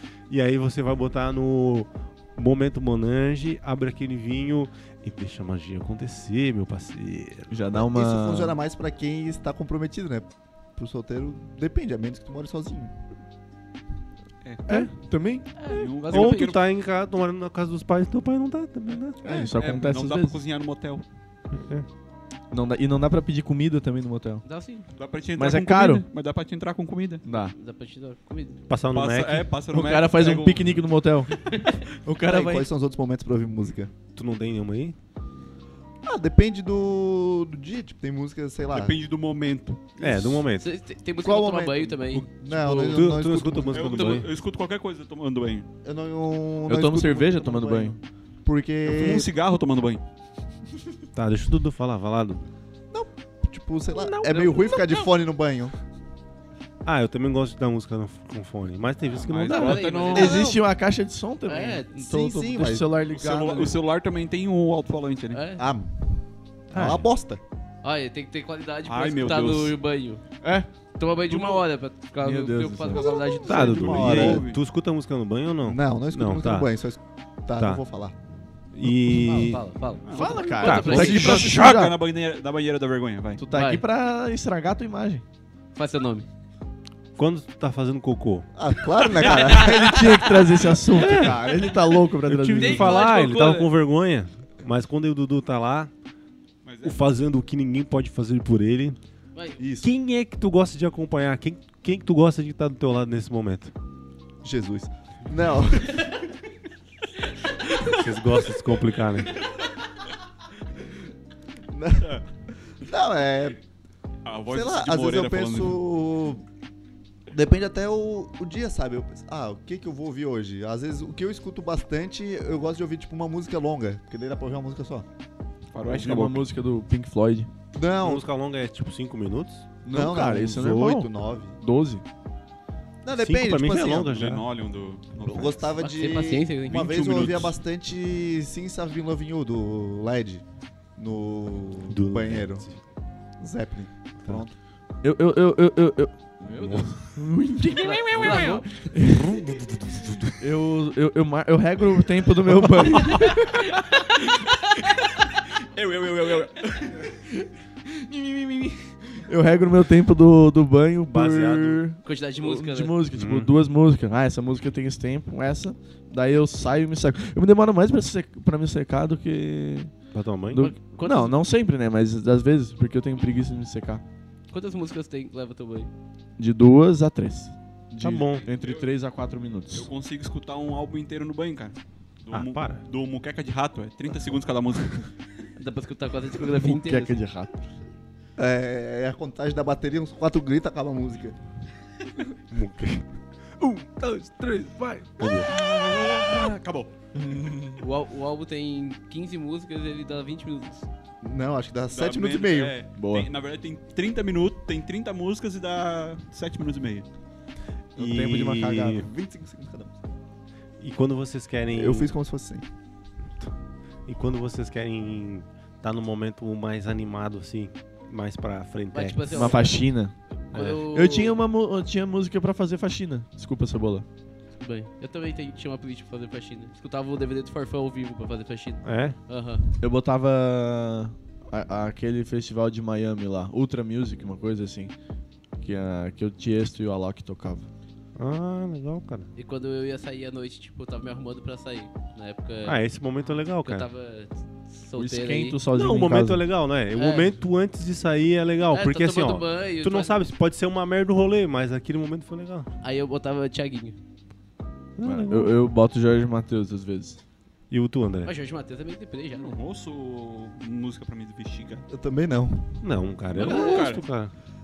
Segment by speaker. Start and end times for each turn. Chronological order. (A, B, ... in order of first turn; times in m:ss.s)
0:00.3-0:07.5 A
0:07.5-0:08.6 B
0:07.7-0:12.9 C
0:14.7-0:15.5 B
0:15.6-0:16.6 D
0:15.6-0:16.6 E
0:16.1-0:19.3 A
0:19.2-0:20.4 B
0:19.2-0:19.5 C
0:19.6-0:21.0 E
0:21.5-0:21.9 A
0:22.5-0:24.4 B
0:24.4-0:24.8 D
0:25.0-0:27.2 E
0:25.4-0:26.0 B
0:27.2-0:27.5 B
0:27.5-0:28.6 D
0:28.7-0:29.5 A
0:28.9-0:30.7 E
0:29.7-0:32.7 B
0:31.4-0:31.8 D
0:32.2-0:33.9 C
0:34.1-0:35.0 A
0:36.0-0:38.9 C
0:38.7-0:40.2 E
0:40.0-0:40.7 A
0:40.6-0:43.0 D
0:41.2-0:44.1 C
0:42.8-0:44.3 A
0:43.7-0:45.7 E
0:45.8-0:49.3 C
0:46.6-0:48.0 B
0:48.8-0:50.0 E
0:51.1-0:52.5 A
0:52.9-0:55.7 C
0:53.9-0:54.9 A
0:56.8-0:59.8 A
0:59.2-1:00.5 E
0:59.5-1:00.6 D
0:59.6-1:03.8 B
1:00.2-1:00.6 C
1:01.4-1:01.9 D
1:02.0-1:03.0 C
1:03.1-1:05.4 E
1:05.3-1:05.6 D
1:05.6-1:06.2 C
1:06.7-1:07.4 C
1:06.7-1:07.1 A
1:07.8-1:10.2 D
1:08.8-1:09.8 E
1:10.4-1:10.7 B
1:11.0-1:14.2 D
1:11.3-1:11.6 E
1:12.2-1:13.2 B
1:12.9-1:14.4 C
1:13.4-1:16.7 A
1:13.5-1:14.6 E
1:15.6-1:18.2 C
1:17.6-1:17.8 A
1:18.7-1:19.6 A
1:19.1-1:21.5 D
1:20.0-1:23.4 E
1:20.1-1:22.0 B
1:20.6-1:21.3 A
1:23.4-1:25.2 B
1:23.5-1:23.8 D
1:25.7-1:26.3 D
1:27.2-1:28.5 A
1:28.5-1:30.5 C
1:29.2-1:29.7 E
1:29.5-1:33.0 B
1:30.9-1:31.6 A
1:32.2-1:35.9 A
1:32.5-1:33.7 D
1:36.6-1:37.2 E
1:36.8-1:39.0 A
1:39.6-1:39.9 C
1:39.8-1:43.7 A
1:44.4-1:46.2 C
1:47.8-1:49.4 A
1:51.7-1:52.2 C
1:52.8-1:53.6 C
1:54.2-1:55.8 E
1:54.5-1:56.4 C
1:57.3-2:05.0 C
2:05.7-2:06.5 E
2:05.8-2:07.5 B
2:07.7-2:08.2 C
2:08.0-2:09.7 A
2:09.8-2:12.0 B
2:09.9-2:11.6 C
2:13.0-2:14.1 C
2:13.1-2:14.4 A
2:13.8-2:15.7 E
2:15.2-2:20.4 C
2:15.8-2:16.9 D
2:16.7-2:17.6 E
2:21.0-2:22.6 C
2:21.9-2:22.8 A
2:23.4-2:24.5 C
2:25.0-2:29.4 B
2:26.5-2:27.0 A
2:26.6-2:26.8 E
2:27.7-2:28.7 D
2:27.9-2:28.6 E
2:29.0-2:30.4 A
2:30.4-2:33.7 B
2:33.1-2:37.2 E
2:38.1-2:39.0 E
2:39.1-2:49.9 B
2:41.1-2:41.8 A
2:42.0-2:43.0 D
2:43.1-2:43.5 A
2:50.1-2:50.7 A
2:50.5-2:54.0 B
2:50.5-2:51.4 D
2:54.5-2:55.9 D
2:56.4-2:59.9 B
2:58.0-2:58.4 A
2:58.3-2:58.9 E
2:59.7-3:05.1 E
3:02.3-3:02.8 A
3:05.6-3:07.2 D
3:06.4-3:07.6 B
3:08.4-3:11.4 C
3:12.5-3:13.0 A
3:13.6-3:15.5 A
3:15.3-3:16.9 E
3:17.1-3:17.8 B
3:17.8-3:20.9 D
3:21.2-3:22.8 C
3:21.9-3:27.1 E
3:22.9-3:23.3 B
3:28.0-3:29.0 B
3:28.0-3:29.1 A
3:28.9-3:30.0 C
3:30.8-3:32.1 A
3:31.7-3:32.6 C
3:34.0-3:39.6 A
3:38.9-3:41.4 D
3:39.3-3:44.0 B
3:44.6-3:49.6 D
3:48.8-3:49.2 A
3:49.8-3:54.9 B
3:55.6-3:57.7 B
3:58.2-3:59.3 A
3:59.3-4:02.8 D
4:02.6-4:03.9 A
4:03.6-4:05.6 D
4:05.0-4:06.4 B
4:05.7-4:12.7 A
4:06.9-4:07.3 D
4:08.7-4:10.2 D
4:12.8-4:14.0 D
4:15.0-4:15.6 A
4:15.0-4:17.2 B
4:17.7-4:18.3 A
4:18.2-4:19.5 D
4:19.3-4:21.9 E
4:21.9-4:22.8 C
4:22.8-4:24.3 A
4:23.4-4:24.0 E
4:23.4-4:23.9 C
4:23.4-4:23.8 D